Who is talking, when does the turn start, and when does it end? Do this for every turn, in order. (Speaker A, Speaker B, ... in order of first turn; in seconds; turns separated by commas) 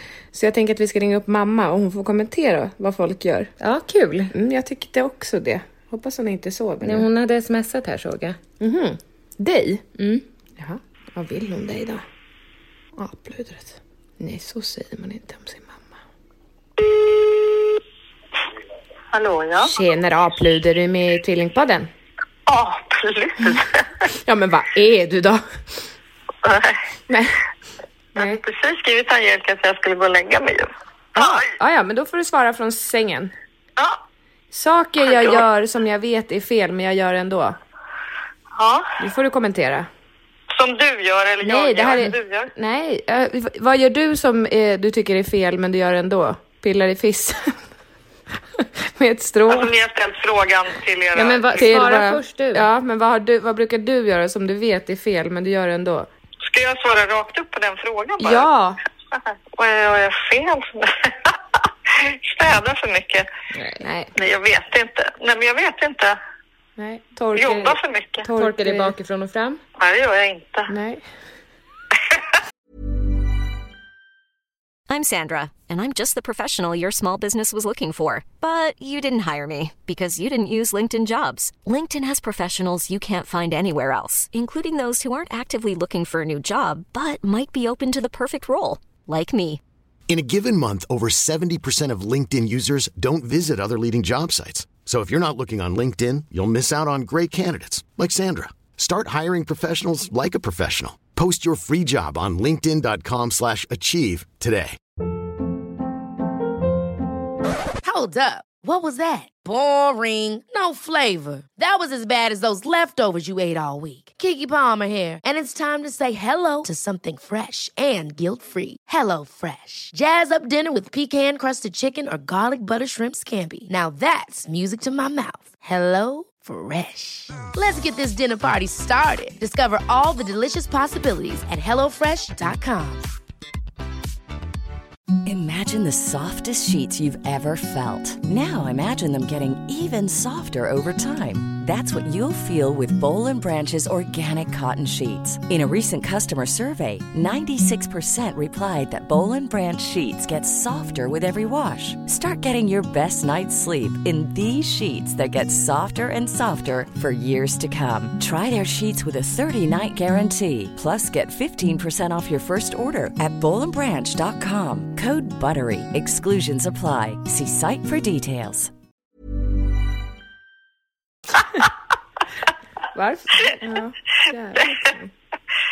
Speaker A: 0.3-3.5, Speaker B: 3.6-4.3, Speaker A: 4.3-7.1, Speaker B: 6.8-8.4, Speaker A: 8.6-9.8, Speaker B: 10.0-10.2, Speaker A: 10.6-12.0, Speaker A: 12.9-16.0, Speaker C: 16.9-17.2, Speaker C: 19.1-19.7, Speaker A: 19.6-21.9, Speaker C: 22.5-23.9, Speaker A: 24.1-25.4, Speaker C: 26.4-26.8, Speaker A: 27.1-27.4, Speaker C: 28.1-31.5, Speaker A: 31.1-33.3, Speaker A: 34.5-37.6, Speaker C: 35.1-35.4, Speaker C: 38.5-38.9, Speaker A: 39.0-39.9, Speaker C: 40.5-42.5, Speaker A: 41.4-47.6, Speaker A: 48.6-49.7, Speaker C: 49.5-51.8, Speaker B: 51.1-52.7, Speaker A: 51.6-56.1, Speaker C: 56.4-58.5, Speaker A: 58.2-58.8, Speaker C: 59.1-63.3, Speaker B: 63.5-63.8, Speaker A: 63.8-64.1, Speaker C: 64.2-66.2, Speaker A: 66.8-68.9, Speaker C: 67.3-68.3, Speaker B: 68.3-69.6, Speaker C: 69.8-70.7, Speaker A: 70.7-71.0, Speaker D: 74.9-89.6, Speaker E: 90.1-104.8, Speaker F: 107.8-133.1, Speaker G: 135.2-168.7, Speaker A: 172.9-175.1, Speaker C: 174.5-174.9